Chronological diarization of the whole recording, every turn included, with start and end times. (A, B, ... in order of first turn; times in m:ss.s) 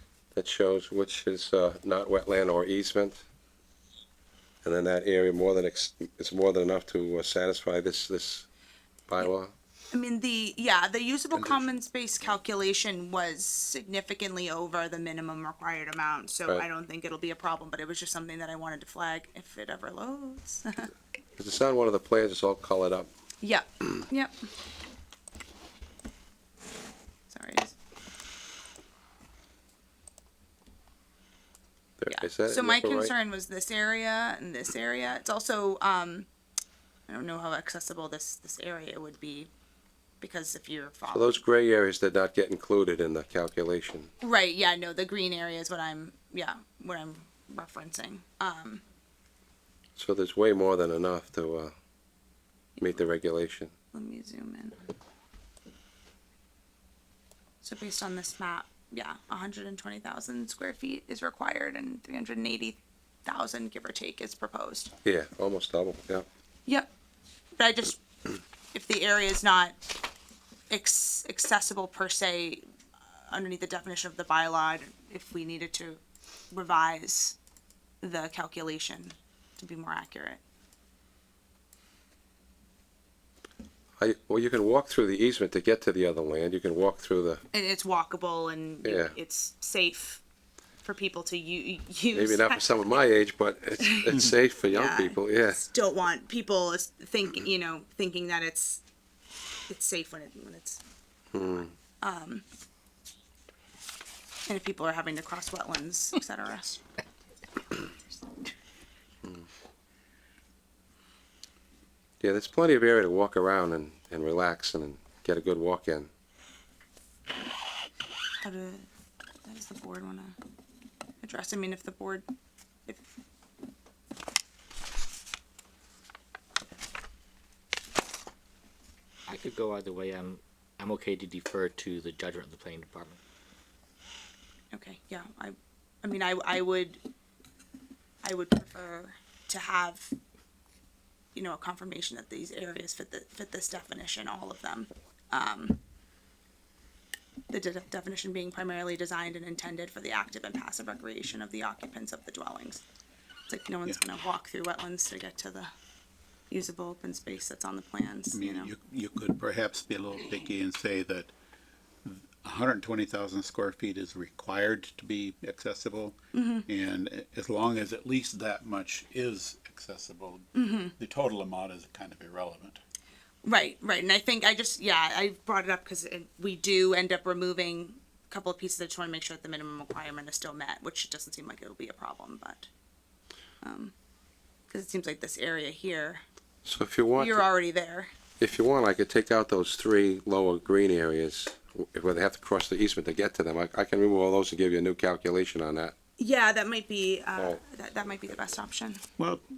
0:00.3-0:03.2 A
0:04.6-0:08.5 A
0:09.1-0:09.5 A
0:09.9-0:20.9 B
0:21.4-0:23.1 A
0:23.4-0:24.3 B
0:27.3-0:27.7 B
0:32.0-0:33.1 A
0:32.1-0:36.3 B
0:37.1-0:39.5 B
0:40.2-0:41.4 B
0:41.1-0:44.1 A
0:44.2-0:48.8 B
0:50.0-0:51.7 A
0:52.8-0:53.7 A
0:53.9-0:54.8 B
0:57.6-1:04.9 B
1:05.0-1:06.3 A
1:07.6-1:08.0 B
1:08.7-1:09.8 B
1:10.7-1:17.4 B
1:18.0-1:20.4 B
1:24.0-1:27.4 A
1:27.5-1:30.2 B
1:28.8-1:29.1 A
1:30.8-1:32.9 B
1:32.1-1:35.6 A
1:33.8-1:38.8 B
1:39.7-1:40.8 B
1:41.3-1:41.7 A
1:42.0-1:42.4 B
1:44.4-1:46.8 B
1:52.2-1:56.1 A
1:58.4-1:58.9 B
1:59.4-2:00.3 B
2:01.2-2:02.3 B
2:09.3-2:13.2 C
2:14.7-2:17.0 B
2:18.2-2:20.1 B
2:21.3-2:25.8 B
2:27.5-2:32.8 B
2:33.5-2:35.7 B
2:36.5-2:38.7 B
2:38.3-2:41.3 D
2:42.0-2:52.8 D
2:46.3-2:46.7 B
2:50.5-2:50.9 B
2:53.4-3:02.7 B
3:03.6-3:03.9 B
3:04.7-3:06.2 B
3:06.6-3:07.4 A
3:07.2-3:08.1 B
3:08.4-3:15.9 A
3:16.2-3:19.0 B
3:19.2-3:19.4 D